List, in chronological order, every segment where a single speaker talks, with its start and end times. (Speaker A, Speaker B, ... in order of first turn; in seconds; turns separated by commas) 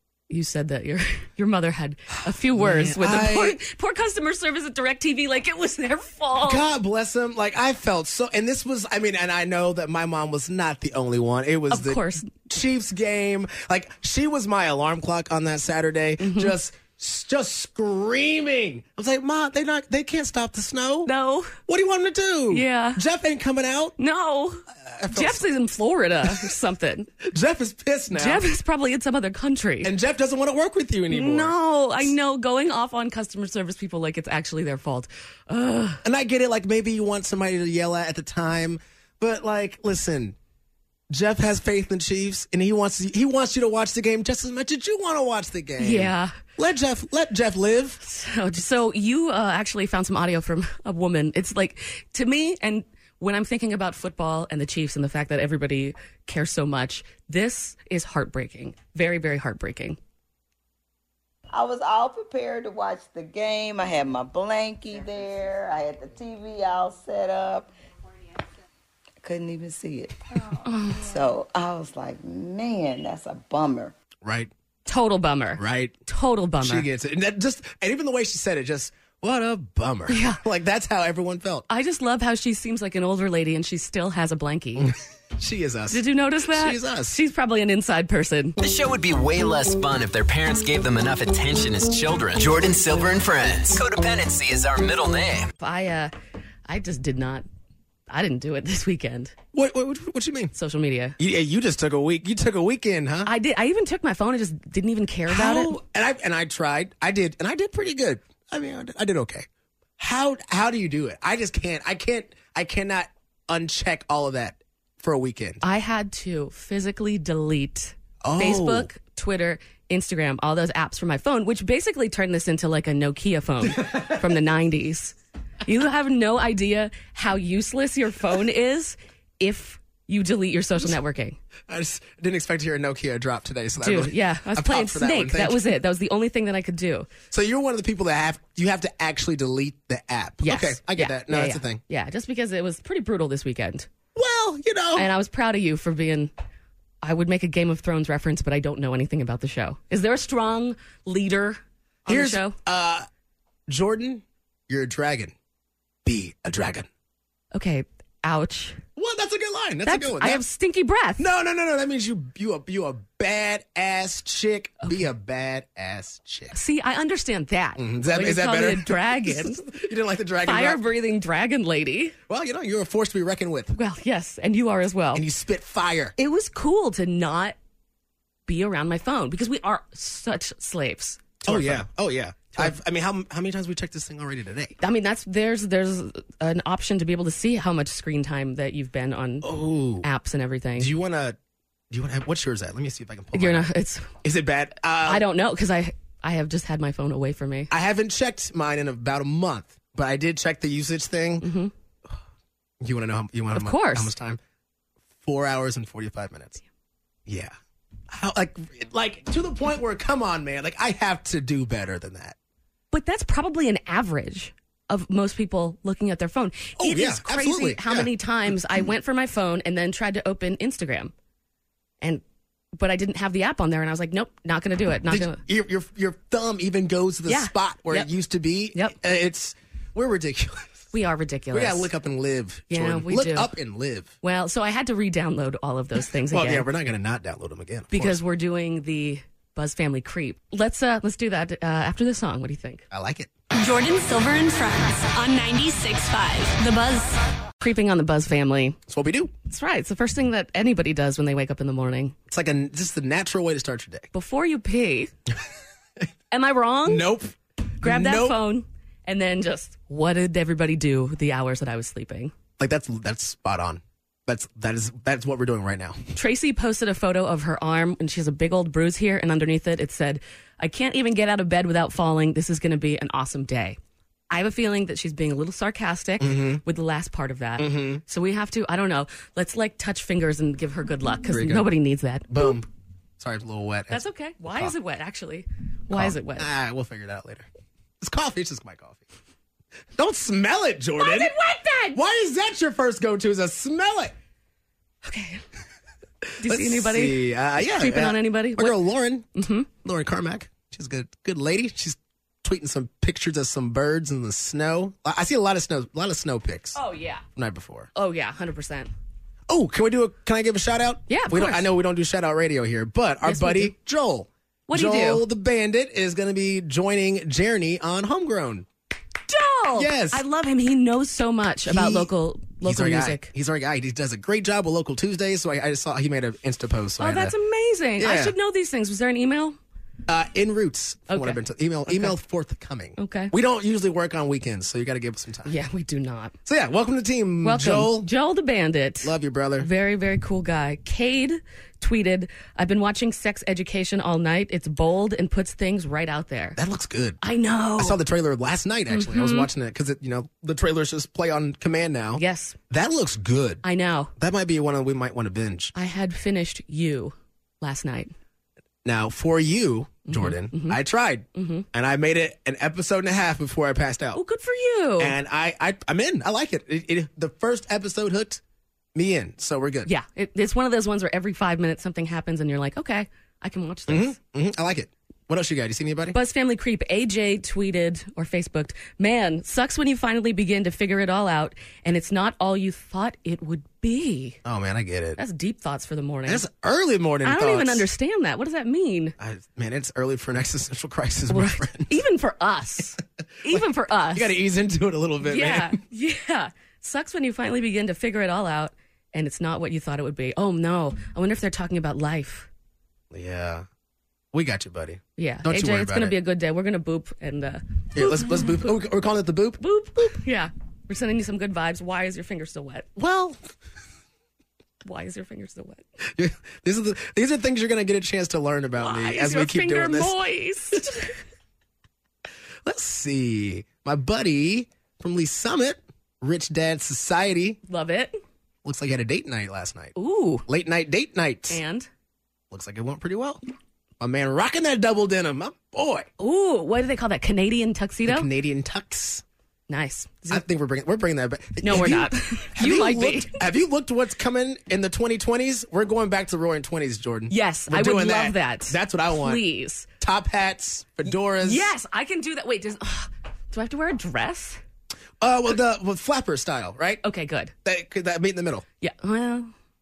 Speaker A: 0.3-6.6, Speaker B: 2.5-3.6, Speaker B: 6.4-21.1, Speaker A: 11.7-12.3, Speaker A: 16.2-16.5, Speaker A: 21.1-21.6, Speaker B: 21.7-23.9, Speaker A: 22.5-23.0, Speaker A: 24.0-27.1, Speaker B: 24.9-25.4, Speaker B: 26.2-26.5, Speaker B: 27.2-28.4, Speaker A: 28.1-29.9, Speaker B: 29.8-32.1, Speaker A: 31.1-36.0, Speaker B: 36.0-40.4, Speaker B: 41.1-48.0, Speaker A: 45.8-46.3, Speaker A: 48.0-60.0, Speaker C: 61.5-67.7, Speaker C: 69.2-73.9, Speaker A: 70.6-71.0, Speaker B: 74.2-74.5, Speaker A: 74.8-76.9, Speaker B: 75.5-76.0, Speaker B: 76.6-81.7, Speaker A: 80.1-80.4, Speaker A: 81.7-84.9, Speaker B: 84.8-87.2, Speaker A: 85.9-88.5, Speaker D: 88.6-95.5, Speaker A: 95.6-96.1, Speaker A: 96.7-97.4, Speaker A: 98.1-99.3, Speaker B: 99.5-100.5, Speaker A: 100.5-101.2, Speaker B: 101.2-103.3, Speaker A: 103.2-105.8, Speaker B: 105.3-109.5, Speaker B: 110.0-115.6, Speaker A: 115.6-131.4, Speaker B: 118.2-118.9, Speaker B: 123.6-124.2, Speaker B: 131.7-135.6, Speaker A: 133.8-137.1, Speaker B: 137.3-141.8, Speaker A: 140.4-143.9, Speaker B: 144.1-145.1, Speaker A: 144.9-146.3, Speaker A: 147.0-152.6, Speaker B: 152.1-153.1, Speaker B: 153.7-155.3, Speaker B: 156.0-156.9, Speaker A: 157.5-158.8, Speaker B: 158.9-160.4, Speaker A: 159.8-161.3, Speaker B: 161.2-166.5, Speaker A: 166.5-169.7, Speaker B: 167.8-170.8, Speaker A: 170.4-172.2, Speaker B: 172.3-173.8, Speaker A: 173.7-175.2, Speaker B: 175.1-176.1, Speaker A: 176.2-177.6, Speaker A: 178.5-181.8, Speaker B: 181.4-184.8, Speaker A: 184.8-190.9, Speaker B: 189.4-190.1, Speaker B: 190.8-191.3, Speaker B: 191.9-195.2, Speaker A: 193.3-194.1, Speaker A: 195.0-197.7, Speaker B: 197.7-201.5, Speaker A: 201.4-201.7, Speaker B: 202.8-204.4, Speaker A: 203.5-204.1, Speaker B: 205.2-206.6, Speaker B: 207.3-207.5, Speaker B: 208.1-212.3, Speaker A: 212.9-221.1, Speaker B: 216.8-218.1, Speaker A: 222.7-225.4, Speaker B: 225.1-230.9, Speaker A: 227.3-228.1, Speaker A: 230.9-231.9, Speaker B: 231.5-234.1, Speaker A: 232.7-233.5, Speaker A: 234.2-236.7, Speaker B: 236.3-238.2, Speaker A: 237.9-242.8, Speaker B: 242.9-243.3, Speaker E: 243.5-247.2, Speaker A: 247.6-248.8, Speaker B: 248.9-249.3, Speaker A: 249.4-252.1, Speaker B: 252.3-254.1, Speaker A: 254.1-255.1, Speaker A: 256.3-257.1, Speaker B: 256.9-258.4, Speaker A: 257.8-262.3, Speaker B: 262.6-266.0, Speaker A: 266.1-273.8, Speaker A: 274.3-282.6, Speaker B: 276.2-276.6, Speaker B: 277.6-278.0, Speaker B: 281.3-281.7, Speaker B: 282.3-282.6, Speaker B: 283.2-284.7, Speaker A: 283.9-286.5, Speaker B: 285.9-287.5, Speaker B: 288.0-289.0, Speaker B: 289.9-291.3, Speaker A: 291.0-292.0, Speaker B: 291.9-294.1, Speaker A: 295.0-295.4, Speaker A: 296.4-297.2, Speaker B: 296.4-306.8, Speaker A: 297.8-298.8, Speaker A: 299.4-299.7, Speaker A: 306.7-307.2, Speaker B: 307.4-307.9, Speaker A: 307.9-308.9, Speaker B: 309.5-318.7, Speaker A: 311.1-311.7, Speaker A: 313.2-313.7, Speaker A: 314.7-315.2, Speaker A: 319.3-323.3, Speaker B: 319.8-320.2, Speaker B: 321.6-322.1, Speaker B: 322.6-327.3, Speaker A: 327.0-329.6, Speaker B: 328.0-328.3, Speaker B: 330.1-335.5, Speaker A: 331.1-332.1, Speaker A: 333.0-333.3, Speaker A: 335.4-336.3, Speaker B: 336.4-338.1, Speaker A: 337.4-346.6, Speaker B: 339.0-339.7, Speaker B: 346.6-347.2, Speaker A: 347.2-348.0, Speaker B: 347.8-353.6, Speaker A: 348.9-349.5, Speaker A: 352.2-352.6, Speaker A: 353.6-354.1, Speaker B: 354.2-355.7, Speaker A: 355.7-358.1, Speaker B: 358.8-364.2, Speaker A: 360.1-360.8, Speaker A: 361.3-361.6, Speaker A: 364.1-365.1, Speaker B: 365.0-368.4, Speaker B: 368.9-369.9, Speaker A: 369.8-374.1, Speaker B: 373.9-376.1, Speaker A: 376.1-384.4, Speaker B: 384.4-385.2, Speaker A: 385.2-386.4, Speaker B: 386.3-387.9, Speaker A: 387.2-389.1, Speaker B: 389.2-391.9, Speaker A: 391.3-394.3, Speaker B: 393.5-395.8, Speaker A: 395.2-402.5, Speaker B: 403.1-403.6, Speaker B: 404.3-406.1, Speaker A: 405.2-408.7, Speaker B: 407.9-409.6, Speaker A: 409.6-412.9, Speaker B: 412.9-413.4, Speaker A: 414.8-415.8, Speaker B: 416.1-420.2, Speaker A: 418.8-421.1, Speaker B: 422.6-427.6, Speaker A: 427.7-428.1, Speaker B: 428.6-429.9, Speaker A: 429.9-430.4, Speaker B: 430.5-431.6, Speaker A: 431.5-431.9, Speaker B: 432.5-433.4, Speaker B: 434.0-436.1, Speaker A: 436.2-438.3, Speaker B: 438.0-439.2, Speaker A: 439.7-440.4, Speaker B: 440.3-449.4, Speaker A: 441.6-443.4, Speaker A: 447.3-449.9, Speaker B: 450.0-451.7, Speaker A: 451.4-454.6, Speaker B: 455.2-457.0, Speaker A: 457.0-457.5, Speaker B: 457.6-458.6, Speaker A: 458.8-459.5